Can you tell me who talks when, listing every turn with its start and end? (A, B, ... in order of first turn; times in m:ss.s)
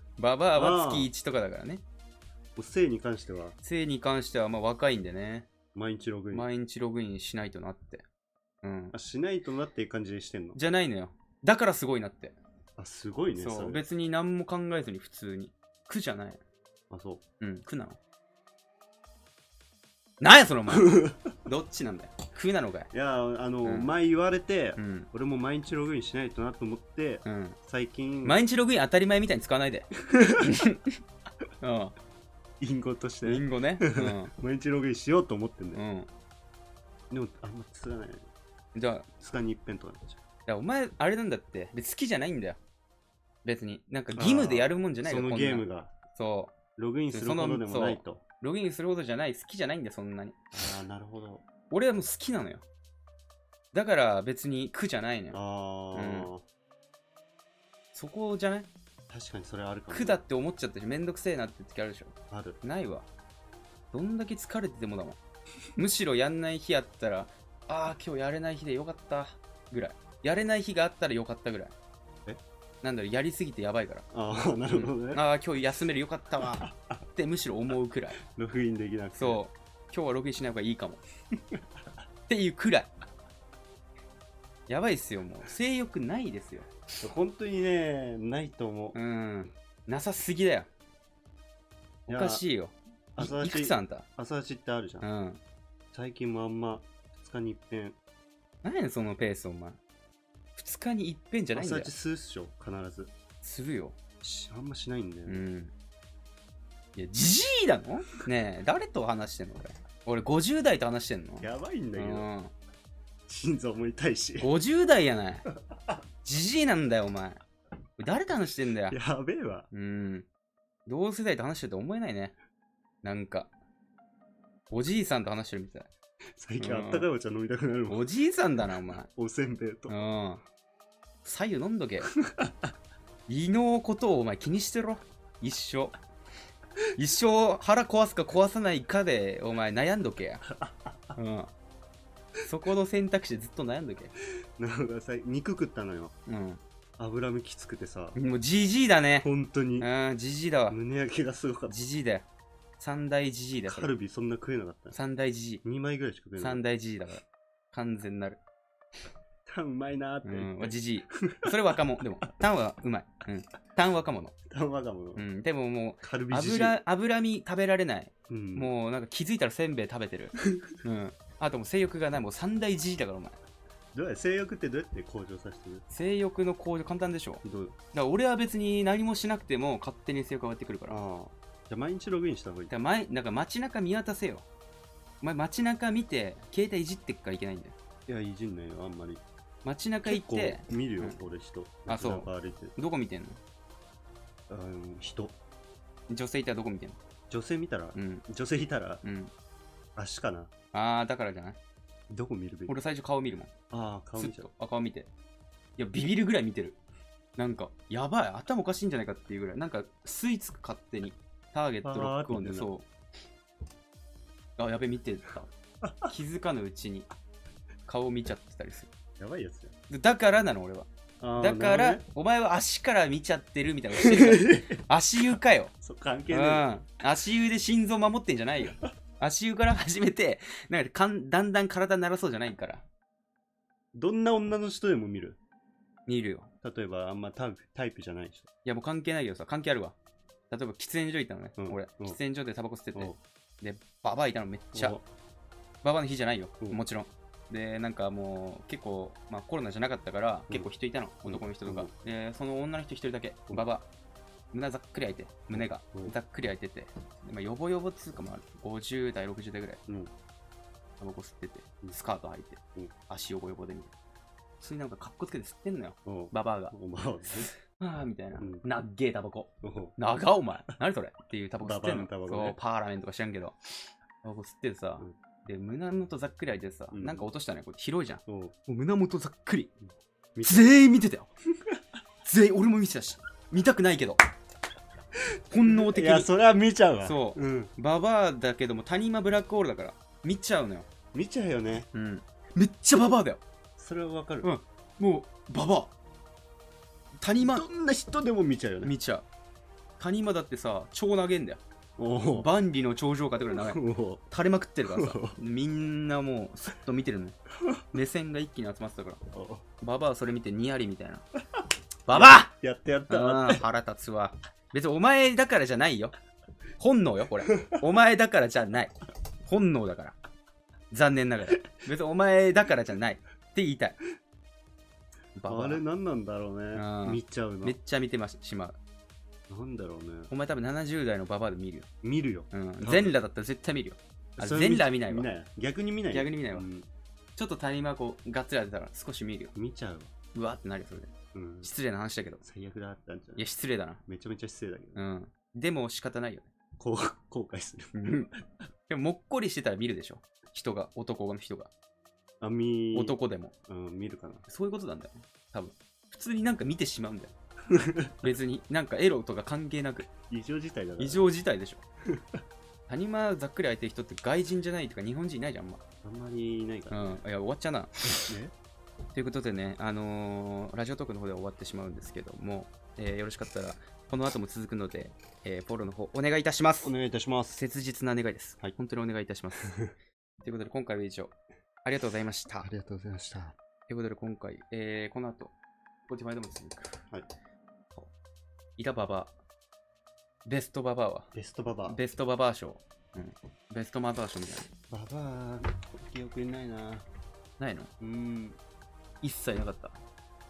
0:00.2-0:01.8 A
0:00.6-0:01.1 B
0:02.6-0:03.6 B
0:03.6-0:05.5 A
0:05.7-0:06.5 B
0:06.3-0:08.0 A
0:08.6-0:08.9 A
0:08.9-0:10.6 B
0:10.6-0:12.4 A
0:12.8-0:13.8 B
0:13.4-0:16.4 A
0:16.9-0:17.2 B
0:17.4-0:18.0 A
0:20.2-0:22.9 A
0:20.7-0:21.2 B
0:22.9-0:28.4 B
0:23.6-0:23.9 A
0:24.8-0:25.1 A
0:27.2-0:27.6 A
0:28.2-0:31.0 A
0:30.1-0:30.6 B
0:31.6-0:32.0 A
0:32.6-0:35.8 B
0:33.2-0:34.3 A
0:35.7-0:36.1 A
0:37.1-0:38.3 B
0:38.8-0:39.1 A
0:39.2-0:40.2 B
0:40.5-0:42.6 A
0:43.4-0:46.6 A
0:44.2-0:45.9 B
0:46.8-0:48.2 B
0:47.1-0:50.4 A
0:50.5-0:51.4 B
0:51.7-0:52.6 A
0:53.7-0:55.4 A
0:55.3-0:56.4 B
0:55.9-0:56.3 A
0:57.9-0:58.7 A
0:59.1-1:00.2 B
0:59.9-1:03.1 A
1:02.3-1:02.6 B
1:03.9-1:05.2 A
1:05.8-1:11.7 A
1:12.8-1:14.1 A
1:14.1-1:15.2 B
1:14.7-1:18.2 A
1:16.6-1:17.0 B
1:18.2-1:19.4 B
1:19.2-1:21.0 A
1:22.3-1:22.9 A
1:24.7-1:26.7 A
1:27.0-1:29.0 B
1:28.9-1:30.7 A
1:32.1-1:32.4 B
1:32.1-1:34.1 A
1:33.2-1:35.1 B
1:35.0-1:35.4 A
1:35.9-1:38.0 B
1:38.6-1:39.8 A
1:40.6-1:41.9 A
1:41.5-1:43.1 B
1:43.4-1:44.0 A
1:44.2-1:45.4 B
1:45.3-1:45.7 A
1:47.0-1:52.5 A
1:51.4-1:52.3 B
1:53.3-1:54.5 B
1:54.4-1:55.5 A
1:56.2-1:57.4 A
1:58.0-1:59.0 A
1:58.9-1:59.7 B
1:59.7-2:00.3 A
2:00.9-2:02.4 A
2:03.0-2:03.5 A
2:04.7-2:05.9 A
2:06.4-2:08.1 B
2:06.6-2:07.1 A
2:07.9-2:09.1 A
2:09.1-2:10.0 B
2:09.9-2:10.4 A
2:11.2-2:12.1 A
2:12.2-2:12.7 B
2:13.3-2:16.0 A
2:17.0-2:20.5 A
2:21.2-2:21.5 A
2:22.4-2:24.1 A
2:24.6-2:26.2 B
2:26.3-2:26.6 A
2:27.0-2:28.2 B
2:28.2-2:29.3 A
2:29.2-2:29.9 B
2:29.8-2:30.8 A
2:30.7-2:31.8 B
2:31.7-2:32.3 A
2:32.8-2:33.9 A
2:33.7-2:35.0 B
2:34.9-2:35.6 A
2:35.6-2:36.6 B
2:36.4-2:38.4 A
2:39.5-2:41.6 B
2:40.2-2:44.4 A
2:44.5-2:45.3 B
2:45.2-2:53.4 A
2:46.0-2:46.8 B
2:48.3-2:48.7 B
2:53.9-2:55.8 B
2:55.9-3:01.0 A
2:57.4-2:57.8 B
3:00.9-3:02.7 B
3:02.7-3:04.5 A
3:05.2-3:07.8 A
3:08.1-3:09.2 B
3:09.6-3:11.2 A
3:10.1-3:12.8 B
3:11.9-3:13.4 A
3:14.5-3:15.4 B
3:16.1-3:17.0 A
3:17.3-3:19.0 B
3:18.0-3:18.2 A
3:19.0-3:19.3 A
3:20.0-3:20.5 B
3:20.7-3:21.6 A
3:22.1-3:22.8 B
3:22.7-3:23.5 A
3:23.7-3:24.5 B
3:24.2-3:25.1 A
3:25.8-3:26.8 A
3:27.4-3:32.9 A
3:31.8-3:32.7 B
3:34.6-3:37.1 A
3:37.9-3:38.9 A
3:39.2-3:39.8 B
3:39.9-3:45.7 A
3:41.2-3:42.0 B
3:44.0-3:44.8 B
3:45.8-3:46.7 B
3:46.3-3:52.9 A
3:53.9-3:55.4 B
3:56.1-3:56.5 A
3:56.6-3:58.5 B
3:58.6-4:00.0 A
4:00.5-4:05.0 A
4:01.6-4:02.2 B
4:04.7-4:05.0 B
4:05.8-4:13.9 A
4:11.3-4:11.9 B
4:14.5-4:19.8 A
4:15.5-4:16.2 B
4:21.0-4:23.9 A
4:24.6-4:26.8 A
4:26.0-4:27.5 B
4:27.6-4:33.6 A
4:28.4-4:28.7 B
4:29.6-4:30.0 B
4:31.6-4:32.6 B
4:34.2-4:39.7 A
4:36.9-4:37.3 B
4:38.3-4:38.5 B
4:40.4-4:40.7 B
4:40.4-4:41.3 A
4:42.2-4:44.2 A
4:45.5-4:46.3 A
4:45.6-4:47.7 B
4:47.0-4:50.9 A
4:51.1-4:51.9 B
4:51.9-4:53.4 A
4:53.8-4:54.5 B
4:54.4-4:55.9 A
4:57.2-4:57.7 A
4:57.4-4:58.9 B
4:58.8-4:59.2 A
5:00.0-5:01.6 A
5:02.0-5:02.5 B
5:02.3-5:07.4 A
5:03.5-5:04.2 B
5:04.9-5:05.4 B
5:07.9-5:09.2 A
5:09.3-5:09.6 B
5:09.8-5:11.2 A
5:12.1-5:12.5 A
5:12.1-5:13.6 B
5:13.1-5:16.1 A
5:16.8-5:20.2 A
5:20.9-5:24.0 A
5:25.4-5:25.8 A
5:25.5-5:27.8 B
5:26.7-5:28.8 A
5:29.5-5:30.3 B
5:30.3-5:31.9 A
5:32.0-5:33.2 B
5:32.5-5:35.3 A
5:34.4-5:36.9 B
5:36.1-5:36.7 A
5:37.4-5:39.5 A
5:39.6-5:40.1 B
5:40.3-5:42.4 A
5:41.3-5:41.7 B
5:42.4-5:43.5 B
5:43.4-5:44.0 A
5:44.1-5:45.0 B
5:45.0-5:46.5 A
5:46.8-5:48.0 B
5:48.0-5:48.3 A
5:48.9-5:51.7 A
5:52.4-5:53.2 B
5:52.9-5:53.5 A
5:53.7-5:54.4 B
5:54.5-5:57.3 A
5:57.7-5:58.2 B
5:58.2-6:00.1 A
6:00.3-6:01.3 B
6:01.0-6:01.8 A
6:02.1-6:02.4 B
6:02.9-6:05.8 A
6:06.0-6:07.2 B
6:06.9-6:07.9 A
6:08.3-6:08.5 B
6:09.1-6:16.9 A
6:16.8-6:17.6 B
6:17.6-6:19.8 A
6:20.4-6:22.7 A
6:22.6-6:23.6 B
6:23.9-6:25.5 A
6:26.1-6:27.1 A
6:28.8-6:29.3 A
6:30.5-6:31.3 A
6:31.3-6:32.0 B
6:31.8-6:34.7 A
6:34.9-6:37.1 B
6:37.6-6:37.9 A
6:38.0-6:38.6 B
6:39.2-6:40.0 A